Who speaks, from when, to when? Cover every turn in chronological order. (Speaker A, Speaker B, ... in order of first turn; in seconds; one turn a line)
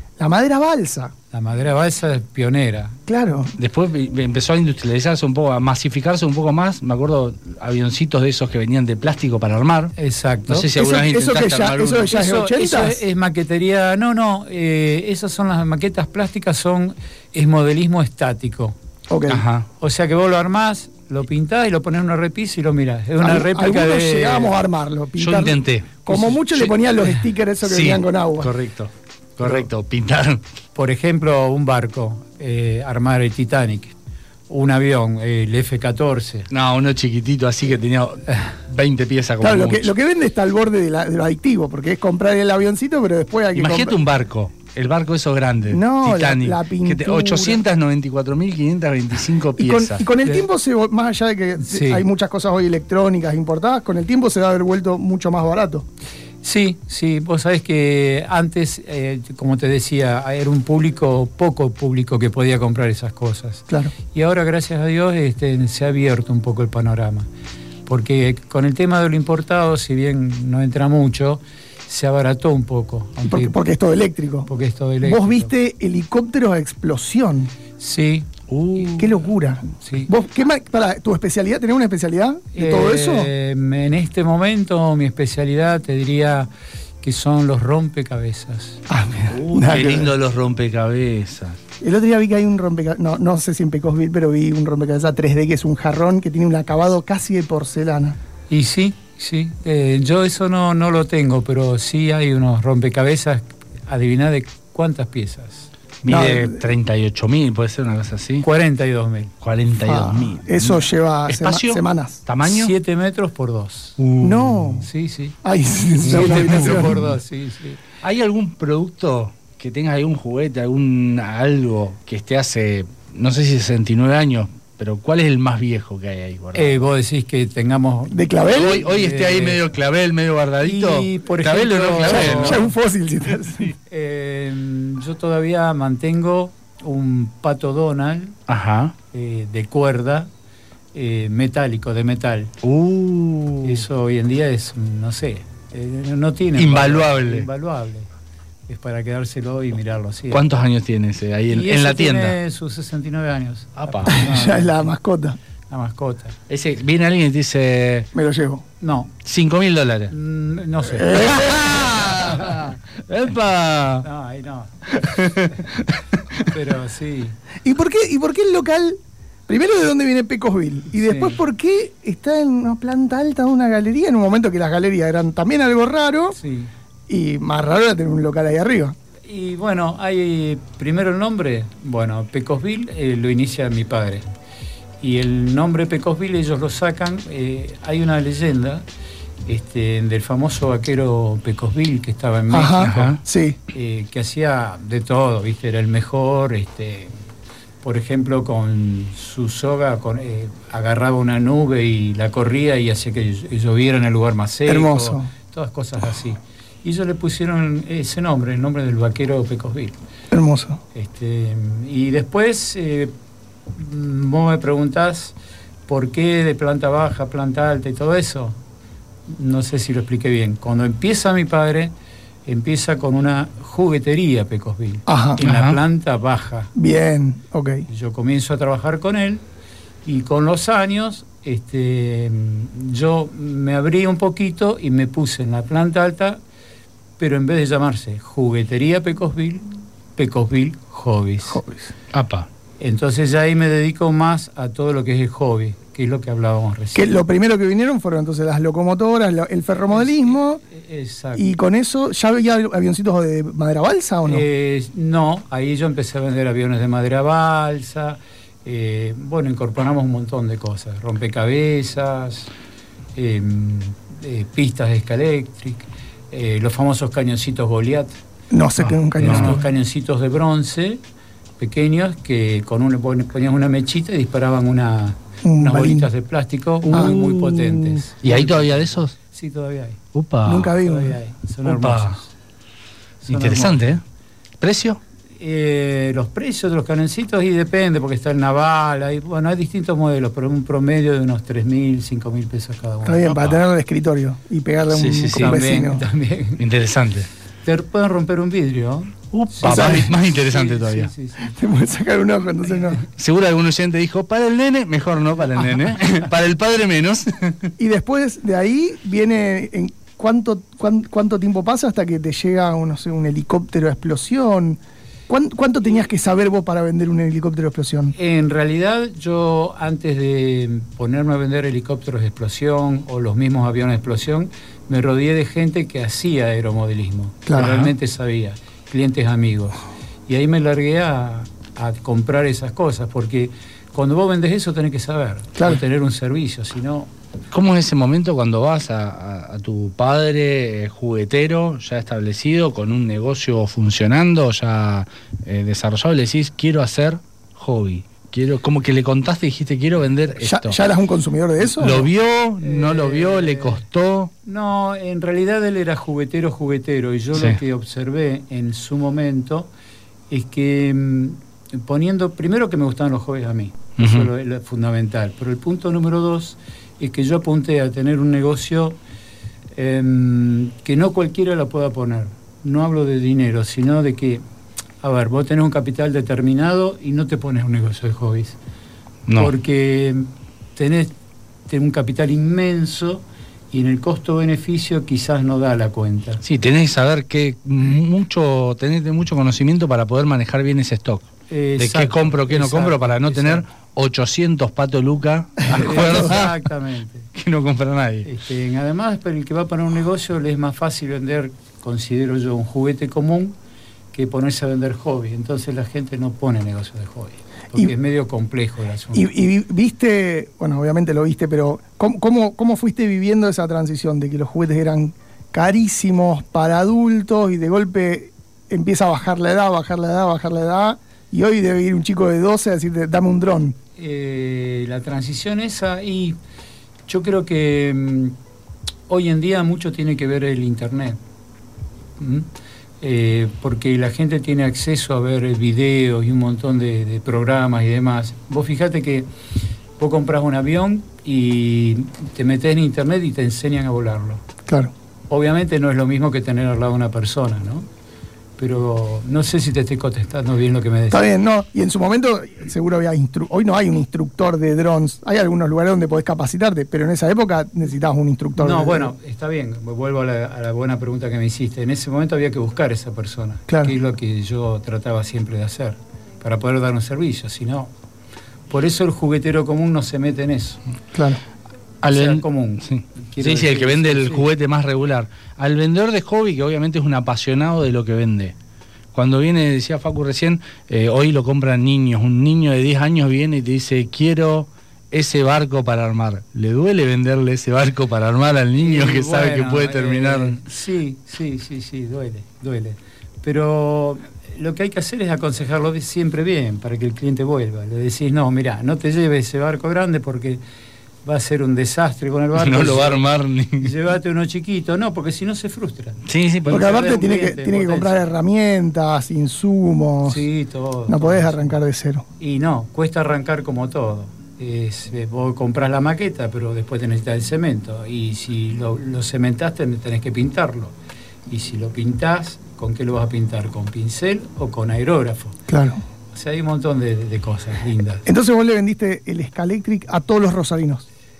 Speaker A: 0.2-1.1
Speaker B: 1.3-3.0
Speaker A: 3.1-3.5
Speaker C: 3.6-9.9
Speaker B: 9.9-10.9
Speaker C: 10.5-12.1
Speaker A: 10.7-13.0
Speaker B: 12.0-18.8
Speaker A: 19.1-19.4
Speaker C: 19.3-19.7
Speaker B: 19.8-24.5
Speaker A: 23.2-28.5
Speaker C: 25.2-27.1
Speaker C: 27.6-30.4
Speaker B: 30.8-33.9
Speaker B: 34.5-36.5
Speaker C: 36.5-39.9
Speaker A: 39.4-44.0
Speaker C: 43.5-50.1
Speaker A: 45.7-47.6
Speaker A: 49.6-55.9
Speaker B: 51.6-52.0
Speaker B: 56.4-67.3
Speaker B: 67.9-73.6
Speaker A: 73.2-74.5
Speaker B: 74.5-75.5
Speaker A: 75.0-77.5
Speaker B: 77.8-78.3
Speaker C: 78.5-79.1
Speaker A: 78.9-83.3
Speaker B: 79.8-80.1
Speaker B: 82.5-86.5
Speaker B: 87.0-88.8
Speaker A: 88.9-90.1
Speaker C: 89.3-91.6
Speaker A: 91.8-98.2
Speaker B: 98.5-105.7
Speaker C: 106.0-108.5
Speaker A: 106.1-106.6
Speaker B: 108.4-109.3
Speaker C: 109.4-112.7
Speaker A: 109.8-112.2
Speaker B: 112.4-114.0
Speaker C: 114.0-114.8
Speaker A: 114.2-114.9
Speaker B: 114.8-115.4
Speaker A: 115.4-117.0
Speaker B: 116.0-117.8
Speaker C: 116.2-116.9
Speaker C: 118.0-126.8
Speaker B: 126.5-129.6
Speaker A: 128.1-128.9
Speaker C: 128.5-132.7
Speaker B: 130.6-132.7
Speaker A: 132.1-133.7
Speaker B: 133.9-138.4
Speaker C: 138.5-138.9
Speaker B: 139.1-140.3
Speaker B: 140.9-142.5
Speaker C: 142.6-143.8
Speaker B: 143.6-148.1
Speaker C: 146.6-147.5
Speaker B: 148.7-150.5
Speaker C: 150.3-152.4
Speaker B: 151.5-154.8
Speaker C: 153.8-154.1
Speaker A: 154.1-155.4
Speaker B: 155.7-156.4
Speaker C: 156.5-158.1
Speaker A: 158.1-158.6
Speaker B: 158.8-159.1
Speaker C: 159.2-160.1
Speaker B: 160.1-161.3
Speaker A: 160.9-162.0
Speaker C: 161.0-164.1
Speaker B: 164.0-165.7
Speaker C: 164.9-166.0
Speaker B: 166.4-167.4
Speaker A: 167.6-176.4
Speaker B: 171.0-171.4
Speaker B: 176.3-176.7
Speaker A: 177.1-178.9
Speaker B: 179.2-184.2
Speaker B: 185.0-188.9
Speaker B: 189.5-193.2
Speaker A: 192.5-193.6
Speaker C: 192.8-193.2
Speaker B: 193.7-197.1
Speaker B: 197.8-210.0
Speaker A: 204.7-205.3
Speaker A: 210.3-210.8
Speaker B: 210.9-213.1
Speaker B: 213.7-215.3
Speaker B: 215.9-218.6
Speaker B: 219.3-221.9
Speaker B: 222.4-226.7
Speaker A: 225.1-225.4
Speaker C: 225.4-225.8
Speaker A: 226.8-227.8
Speaker B: 227.9-229.4
Speaker B: 230.1-236.4
Speaker B: 237.2-241.6
Speaker A: 241.4-241.9
Speaker C: 242.1-242.5
Speaker B: 242.8-247.2
Speaker A: 246.9-250.6
Speaker B: 249.9-251.5
Speaker A: 251.3-254.4
Speaker B: 254.3-262.5
Speaker B: 263.1-268.1
Speaker A: 268.5-269.7
Speaker B: 269.2-271.0
Speaker C: 269.2-269.6
Speaker B: 271.6-280.0
Speaker A: 275.4-276.1
Speaker C: 276.9-279.1
Speaker A: 276.9-277.2
Speaker C: 280.1-280.8
Speaker A: 280.4-281.2
Speaker B: 280.8-282.3
Speaker C: 281.6-282.2
Speaker B: 283.2-283.9
Speaker C: 283.3-284.0
Speaker C: 284.6-285.0
Speaker B: 285.4-293.3
Speaker A: 293.0-296.0
Speaker C: 293.3-293.6
Speaker C: 294.9-295.7
Speaker B: 295.4-296.7
Speaker C: 296.6-297.3
Speaker B: 297.6-301.6
Speaker C: 299.3-301.1
Speaker A: 299.6-300.1
Speaker A: 301.4-303.0
Speaker C: 303.2-307.7
Speaker A: 307.8-318.1
Speaker B: 318.1-337.1
Speaker A: 327.4-327.8
Speaker C: 327.6-327.9
Speaker C: 337.5-350.8
Speaker A: 350.4-352.1
Speaker C: 351.7-354.3
Speaker B: 352.6-353.8
Speaker B: 354.4-359.7
Speaker B: 360.3-369.0
Speaker C: 364.0-364.3
Speaker B: 369.7-374.4
Speaker B: 375.0-378.6
Speaker C: 379.3-379.5
Speaker B: 379.4-381.1
Speaker B: 381.7-386.4
Speaker C: 386.4-396.6
Speaker B: 391.5-393.6
Speaker B: 395.7-397.3
Speaker C: 397.3-398.3
Speaker B: 398.2-403.6
Speaker B: 404.1-409.3
Speaker A: 409.1-423.8
Speaker B: 424.0-426.4
Speaker B: 427.1-428.4
Speaker B: 429.1-431.2
Speaker B: 432.2-432.5
Speaker B: 433.0-439.3
Speaker B: 440.0-444.4
Speaker A: 444.7-444.9
Speaker B: 445.3-447.9
Speaker B: 448.6-451.3
Speaker A: 451.1-459.1
Speaker B: 458.6-467.9
Speaker A: 463.7-463.9
Speaker B: 468.7-470.8
Speaker A: 471.1-471.4
Speaker C: 472.0-478.6
Speaker B: 472.1-474.5
Speaker C: 479.1-490.6
Speaker B: 488.8-500.6
Speaker B: 501.2-503.2
Speaker C: 502.6-503.9
Speaker B: 503.8-508.3
Speaker C: 506.3-506.9
Speaker A: 506.7-510.4
Speaker B: 510.2-511.7
Speaker A: 511.1-512.3
Speaker B: 512.4-520.9
Speaker B: 521.5-525.6
Speaker A: 525.7-526.0
Speaker B: 526.3-528.3
Speaker A: 528.2-531.1